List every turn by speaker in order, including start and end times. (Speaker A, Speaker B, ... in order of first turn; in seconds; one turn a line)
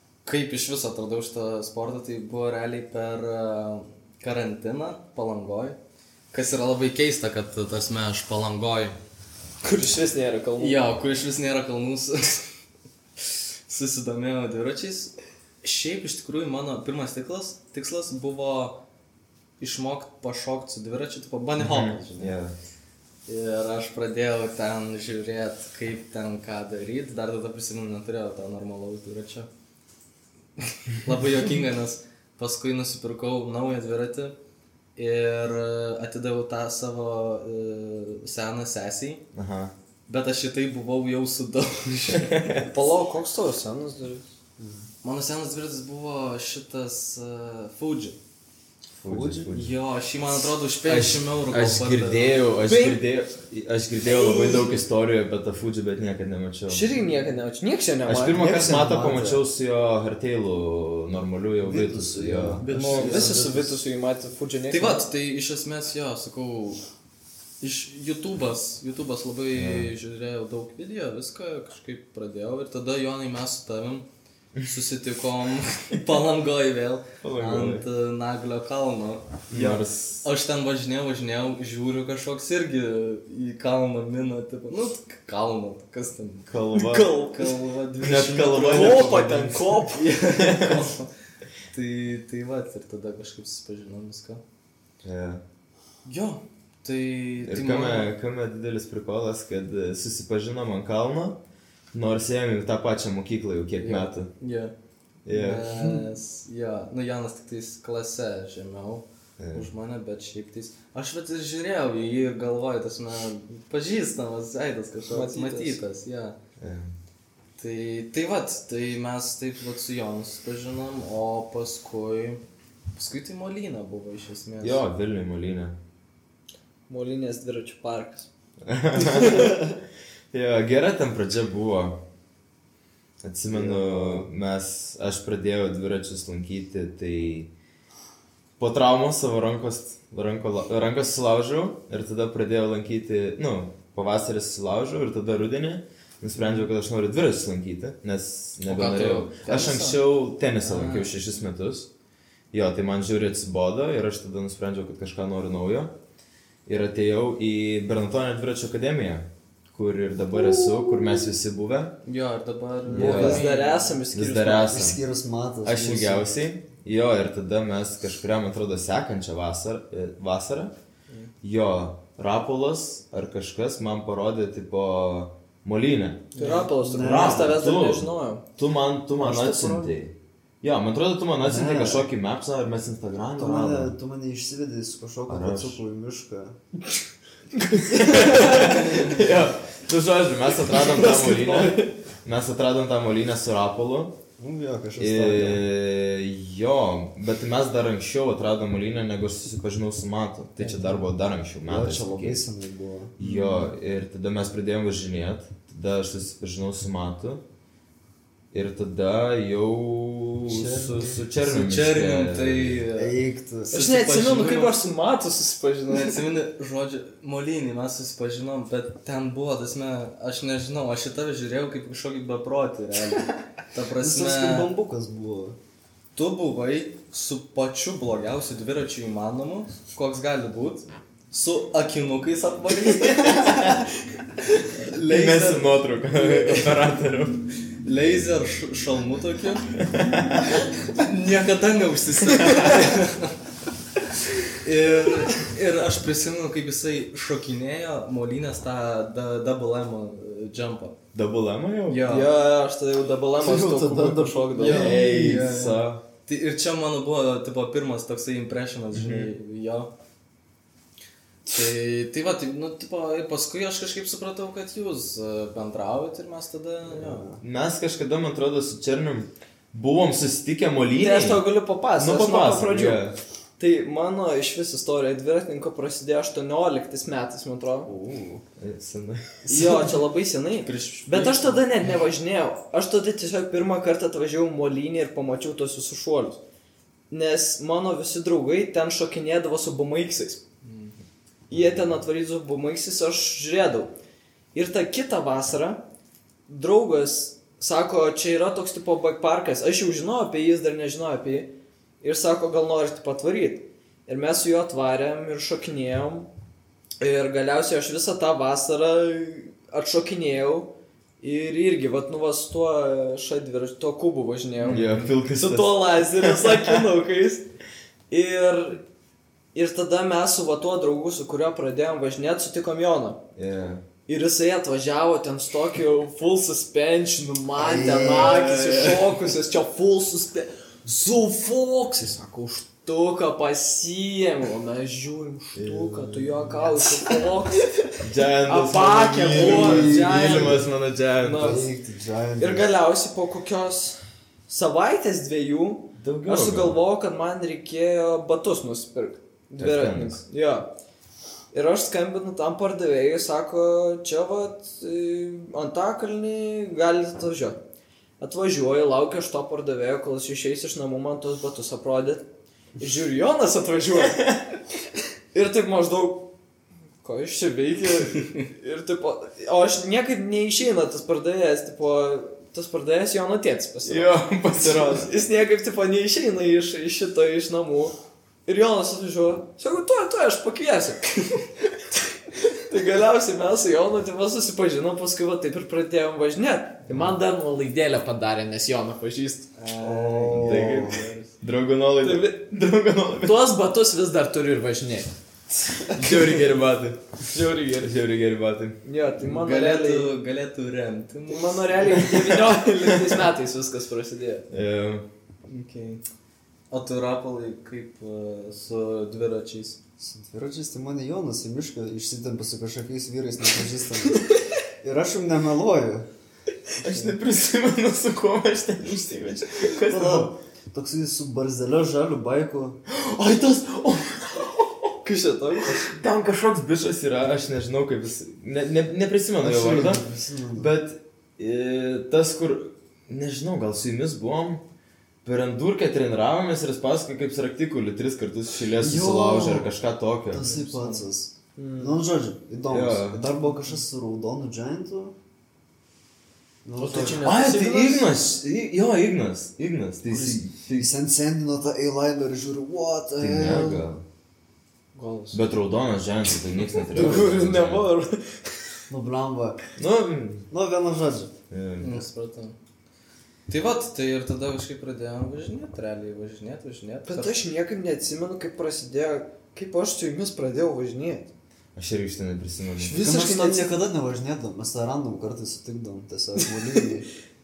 Speaker A: 0.2-5.8
Speaker A: 6.3-9.0
Speaker B: 9.6-10.9
Speaker A: 10.6-12.5
Speaker A: 13.7-18.8
Speaker A: 19.6-22.4
Speaker C: 21.6-22.5
Speaker A: 23.3-29.5
Speaker A: 30.6-34.4
Speaker A: 35.0-39.2
Speaker C: 39.3-39.7
Speaker A: 40.1-42.5
Speaker C: 42.2-42.7
Speaker B: 42.6-44.2
Speaker D: 44.6-44.9
Speaker A: 45.0-48.2
Speaker C: 49.0-49.7
Speaker D: 49.0-49.5
Speaker A: 49.5-52.5
Speaker C: 50.9-56.9
Speaker B: 52.7-53.0
Speaker B: 54.0-54.7
Speaker B: 56.7-58.4
Speaker D: 58.1-59.4
Speaker C: 58.1-62.6
Speaker D: 61.6-63.8
Speaker A: 62.6-63.4
Speaker B: 62.8-65.0
Speaker A: 64.7-66.8
Speaker A: 67.6-74.1
Speaker C: 69.5-69.9
Speaker A: 74.7-86.5
Speaker C: 77.2-77.9
Speaker C: 79.5-80.2
Speaker C: 86.5-87.1
Speaker B: 86.7-87.6
Speaker A: 87.3-89.2
Speaker C: 88.0-90.9
Speaker B: 88.5-90.1
Speaker A: 89.9-91.1
Speaker A: 91.7-94.4
Speaker C: 95.0-95.4
Speaker A: 96.0-98.1
Speaker C: 97.4-101.4
Speaker C: 101.9-104.3
Speaker A: 103.8-104.7
Speaker C: 105.3-105.7
Speaker A: 105.3-116.4
Speaker C: 109.4-109.7
Speaker B: 115.1-115.8
Speaker C: 116.6-116.9
Speaker A: 117.6-122.4
Speaker A: 123.0-124.8
Speaker C: 124.6-125.8
Speaker B: 126.9-128.3
Speaker C: 128.7-129.8
Speaker B: 129.0-129.7
Speaker C: 130.3-132.0
Speaker C: 133.2-137.5
Speaker D: 133.5-134.3
Speaker C: 138.6-151.9
Speaker A: 146.4-146.7
Speaker A: 148.7-151.2
Speaker C: 152.5-155.9
Speaker C: 156.7-161.9
Speaker D: 160.3-161.1
Speaker A: 162.1-164.0
Speaker C: 162.9-163.4
Speaker D: 162.9-163.4
Speaker B: 163.0-164.9
Speaker C: 164.1-165.0
Speaker D: 164.7-166.4
Speaker C: 165.7-170.7
Speaker C: 171.4-176.3
Speaker A: 176.3-176.7
Speaker B: 176.4-178.4
Speaker D: 176.8-177.8
Speaker C: 176.9-183.9
Speaker B: 179.2-179.9
Speaker D: 181.4-182.1
Speaker D: 183.4-186.6
Speaker C: 185.3-185.8
Speaker B: 187.6-188.8
Speaker C: 187.9-194.1
Speaker A: 188.8-189.2
Speaker B: 190.7-191.9
Speaker D: 194.4-195.6
Speaker C: 195.0-202.4
Speaker A: 200.6-201.0
Speaker D: 201.6-203.2
Speaker C: 203.2-207.4
Speaker A: 203.2-203.7
Speaker C: 208.5-212.8
Speaker D: 210.5-211.3
Speaker A: 211.4-214.9
Speaker D: 213.0-213.7
Speaker B: 213.7-216.2
Speaker A: 215.9-224.7
Speaker D: 224.0-225.6
Speaker A: 226.2-233.6
Speaker C: 233.0-233.9
Speaker A: 234.6-236.9
Speaker C: 235.1-237.4
Speaker A: 237.8-239.7
Speaker C: 239.7-240.7
Speaker A: 240.8-243.3
Speaker C: 242.5-242.8
Speaker A: 244.5-251.0
Speaker C: 251.1-252.1
Speaker A: 251.9-252.3
Speaker B: 252.0-255.0
Speaker D: 253.4-255.2
Speaker A: 254.6-259.9
Speaker C: 254.7-256.0
Speaker C: 258.9-259.3
Speaker A: 261.5-267.3
Speaker D: 266.9-267.4
Speaker C: 267.4-273.1
Speaker B: 271.0-273.0
Speaker B: 273.6-277.9
Speaker D: 277.9-278.4
Speaker C: 278.6-279.4
Speaker B: 279.5-286.4
Speaker D: 279.5-279.7
Speaker A: 280.6-281.6
Speaker B: 287.1-290.4
Speaker A: 290.6-291.0
Speaker B: 291.5-293.9
Speaker B: 294.5-295.8
Speaker B: 296.5-301.5
Speaker B: 302.0-306.3
Speaker B: 307.0-317.5
Speaker A: 314.6-315.0
Speaker C: 314.7-316.8
Speaker B: 318.1-318.8
Speaker B: 319.6-323.2
Speaker C: 323.4-323.8
Speaker B: 324.1-337.8
Speaker D: 327.6-328.7
Speaker C: 335.6-336.5
Speaker C: 338.0-341.6
Speaker B: 338.5-340.7
Speaker D: 339.4-340.7
Speaker B: 341.2-341.7
Speaker D: 341.2-342.7
Speaker B: 342.4-350.7
Speaker C: 346.0-346.8
Speaker C: 349.6-350.2
Speaker B: 351.5-357.6
Speaker B: 358.2-362.2
Speaker B: 362.8-364.3
Speaker B: 365.3-366.3
Speaker B: 367.0-377.9
Speaker C: 373.9-375.1
Speaker B: 378.5-381.4
Speaker B: 382.4-389.5
Speaker A: 389.6-391.3
Speaker D: 389.8-391.0
Speaker C: 390.4-393.4
Speaker B: 392.0-392.4
Speaker B: 393.2-395.1
Speaker C: 395.9-397.1
Speaker B: 397.3-397.9
Speaker C: 397.8-398.8
Speaker B: 398.8-400.1
Speaker A: 399.2-402.1
Speaker B: 401.3-404.5
Speaker C: 404.5-405.1
Speaker A: 405.5-406.0
Speaker A: 406.7-409.8
Speaker D: 410.0-414.2
Speaker B: 414.1-414.3
Speaker D: 414.8-416.1
Speaker C: 416.8-420.3
Speaker D: 419.8-422.8
Speaker C: 422.9-424.9
Speaker B: 425.0-425.9
Speaker C: 425.7-430.0
Speaker D: 429.4-430.7
Speaker C: 430.6-434.6
Speaker C: 435.2-440.5
Speaker D: 438.8-439.7
Speaker D: 440.3-445.1
Speaker A: 440.4-441.0
Speaker B: 441.6-442.0
Speaker C: 442.7-443.2
Speaker D: 446.6-447.3
Speaker B: 446.8-448.1
Speaker C: 447.2-450.9
Speaker D: 450.1-453.9
Speaker C: 453.2-454.0
Speaker B: 455.0-455.4
Speaker C: 455.3-457.9
Speaker B: 456.8-458.7
Speaker D: 458.9-459.6
Speaker C: 459.8-460.5
Speaker D: 460.5-461.3
Speaker C: 461.5-461.9
Speaker A: 461.8-462.6
Speaker A: 463.5-467.4
Speaker B: 467.1-471.3
Speaker C: 471.8-473.0
Speaker B: 472.8-473.7
Speaker D: 473.0-477.1